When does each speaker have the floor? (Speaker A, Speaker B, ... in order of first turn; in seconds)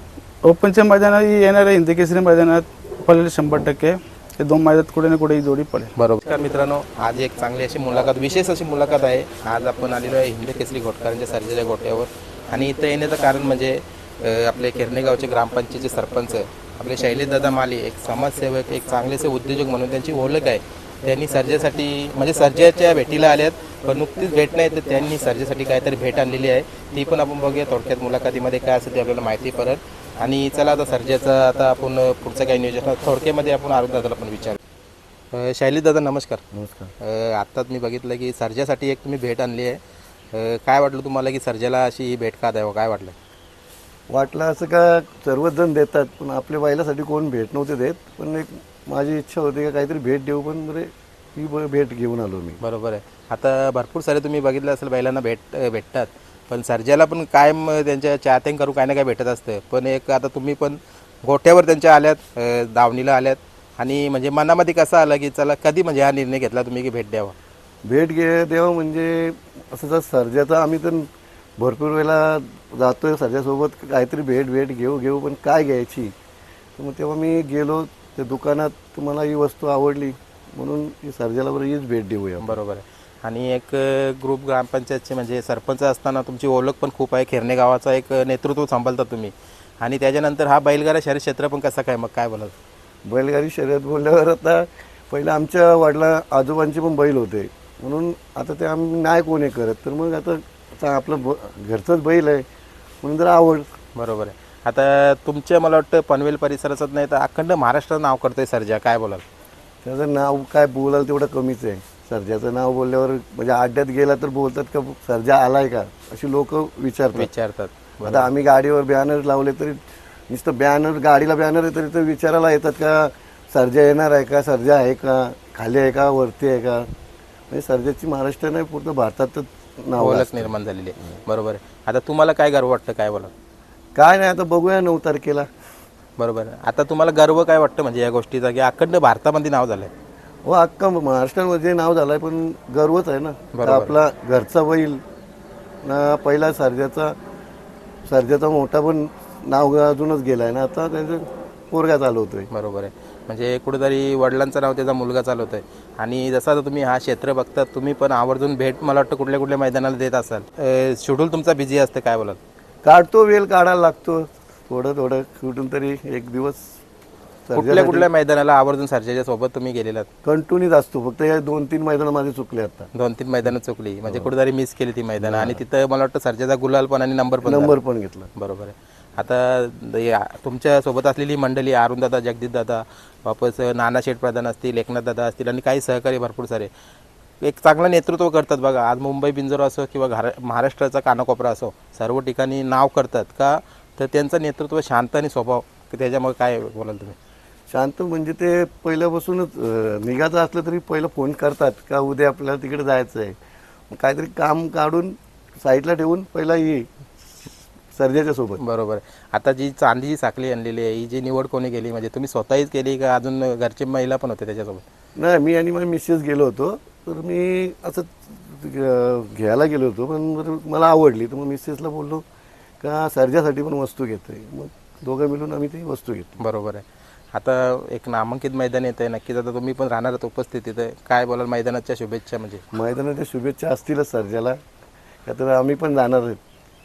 Speaker A: 0.4-5.9
Speaker B: 6.0-34.6, 35.3-36.4, 37.0-39.8, 40.3-43.1, 52.6-67.3, 82.4-92.5, 103.9-109.2, 117.1-118.3, 130.0-133.3, 136.2-139.9, 143.5-143.9, 152.5-162.4, 167.5-170.1, 172.9-177.7, 178.3-186.7, 187.4-197.2, 208.6-214.8, 226.4-232.6
Speaker C: 36.5-36.9, 44.1-52.6, 67.8-76.1, 76.8-82.6, 93.0-102.4, 103.0-103.7, 109.8-117.3, 118.0-126.9, 127.5-130.5, 133.9-135.5, 140.4-145.0, 145.8-147.2, 148.1-152.5, 162.8-166.7, 167.4-168.1, 170.2-172.9, 175.2-175.6, 177.4-178.3, 197.7-203.3, 203.9-208.6, 215.2-222.2, 222.8-226.4, 232.7-234.6, 235.2-236.4